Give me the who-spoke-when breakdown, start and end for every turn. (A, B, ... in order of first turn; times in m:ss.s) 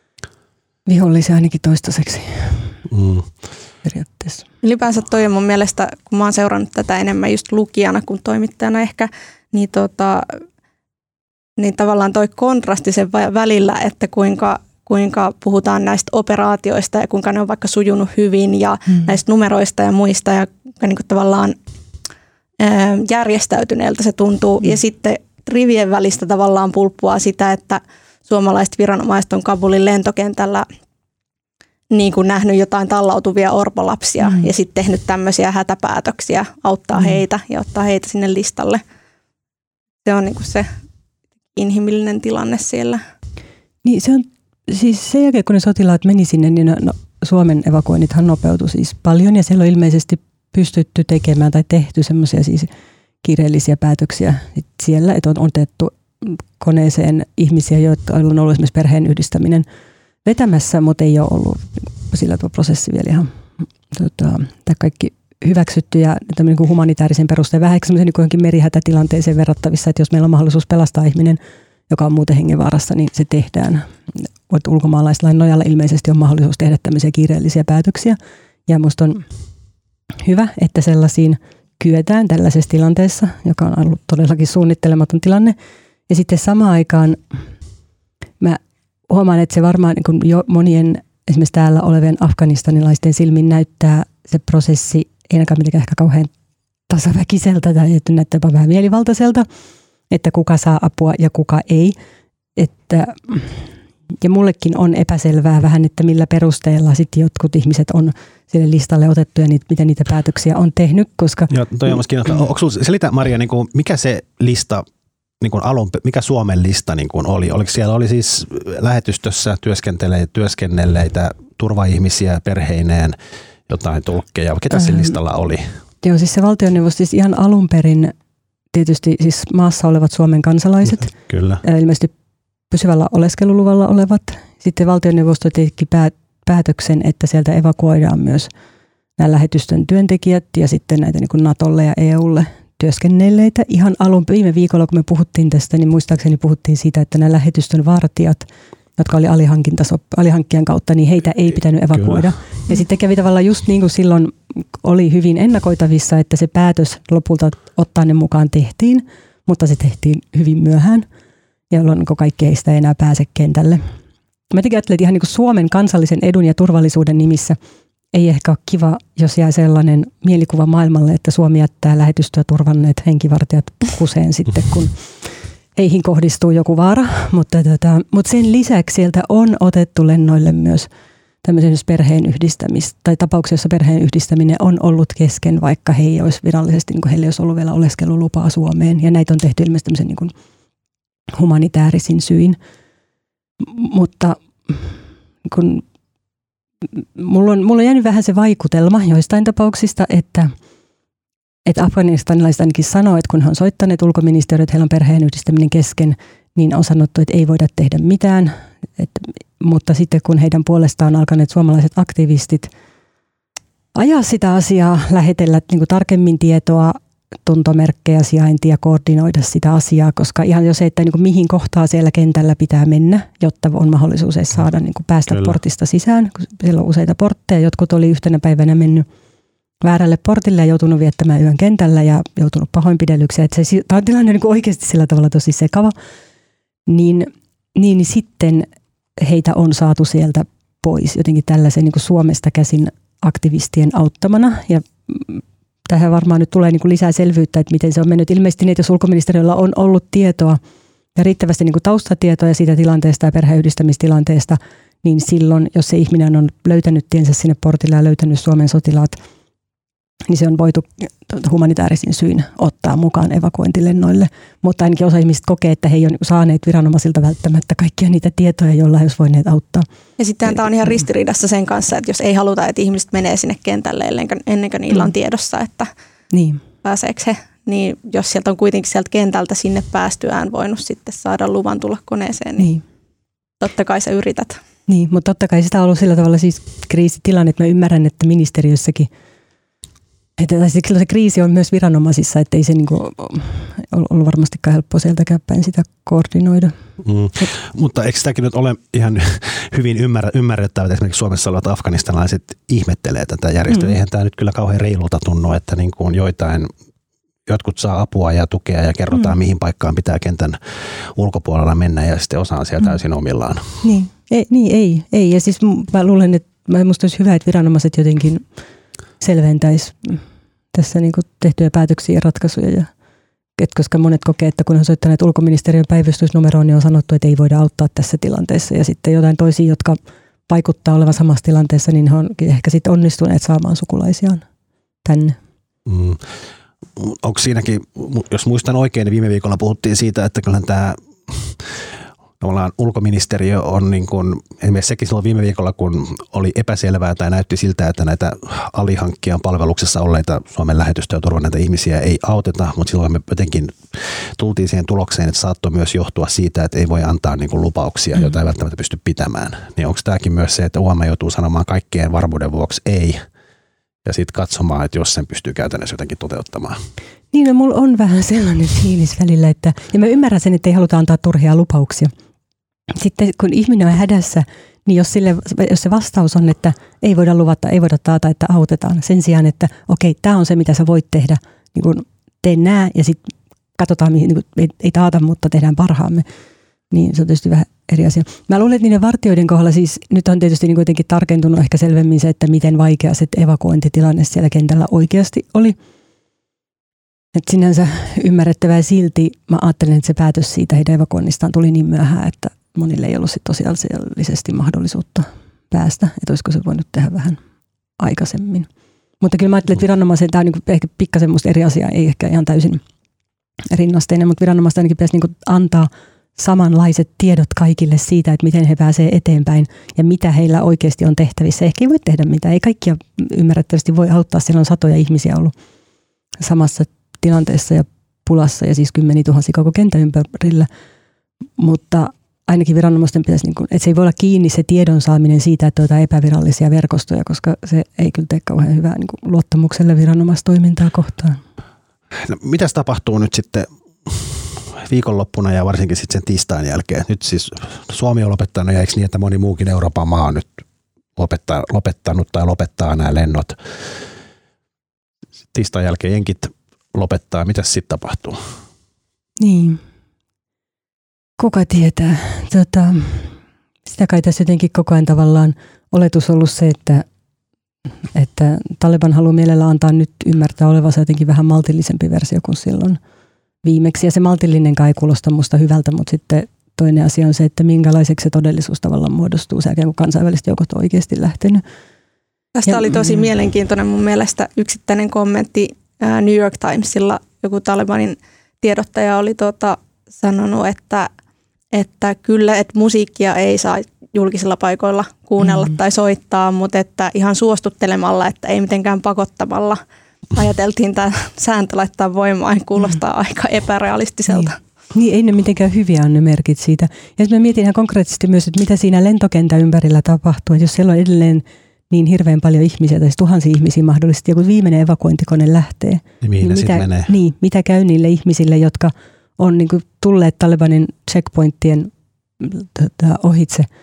0:00.8-0:02.7 A
0:02.9-0:03.3 B
0:03.8-0:04.4 A
0:04.6-0:10.4 C
0:11.6-0:21.6 C
0:22.6-0:30.6 C
0:31.9-0:38.8 C
0:34.2-0:34.5 A
0:36.9-0:37.2 A
0:40.0-0:40.7 C
0:41.5-0:43.0 C
0:43.8-0:52.7 A
0:53.2-0:59.6 A
1:00.2-1:03.3 A
1:03.9-1:19.2 A
1:20.2-1:25.5 A
1:26.1-1:27.2 A
1:28.4-1:36.3 A
1:36.9-1:39.4 A
1:40.1-1:41.9 A
1:42.6-1:51.9 A
1:51.5-1:54.8 B
1:55.4-2:03.2 B
2:03.7-2:05.7 B
2:04.8-2:05.0 A
2:06.0-2:08.1 A
2:08.7-2:11.1 A
2:10.9-2:11.6 B
2:11.6-2:12.1 A
2:12.7-2:18.5 A
2:19.2-2:28.4 A
2:29.0-2:41.1 A
2:31.9-2:32.3 B
2:41.7-2:43.8 A
2:44.5-2:47.6 A
2:48.1-2:54.9 A
2:55.8-3:00.9 A
3:01.4-3:10.3 A
3:11.3-3:12.6 A
3:13.6-3:15.8 A
3:16.8-3:20.5 A
3:21.6-3:32.7 A
3:33.9-3:49.0 A
3:45.3-3:45.6 B
3:49.8-3:55.9 A
3:56.8-4:10.6 A
4:11.1-4:19.2 A
4:20.3-4:29.8 A
4:30.2-4:35.9 C
4:36.3-4:36.6 A
4:36.8-4:42.7 C
4:42.6-4:42.8 A
4:43.6-4:44.6 C
4:44.9-4:49.1 A
4:50.4-4:56.7 A
4:57.0-5:06.7 B
5:03.7-5:03.9 A
5:07.5-5:13.8 B
5:13.8-5:18.4 A
5:19.2-5:20.2 A
5:20.7-5:22.9 A
5:23.6-5:34.4 A
5:35.0-5:35.4 A
5:35.8-5:36.2 B
5:37.0-5:41.7 B
5:42.4-6:03.2 B
6:04.0-6:06.8 B
6:07.3-6:12.1 A
6:12.9-6:26.2 A
6:26.9-6:35.8 A
6:37.3-6:47.4 A
6:48.0-6:48.7 A
6:49.2-6:52.8 A
6:53.7-7:05.5 A
7:06.4-7:10.7 A
7:11.6-7:21.4 A
7:22.2-7:30.6 B
7:31.2-7:33.6 B
7:35.5-7:38.4 B
7:39.4-7:39.8 A
7:41.4-7:47.0 A
7:48.1-7:53.0 A
7:53.6-8:01.6 A
8:02.6-8:11.1 C
8:02.7-8:03.2 A
8:11.7-8:19.8 C
8:15.4-8:15.7 A
8:20.3-8:24.6 C
8:24.3-8:43.7 A
8:36.2-8:37.1 B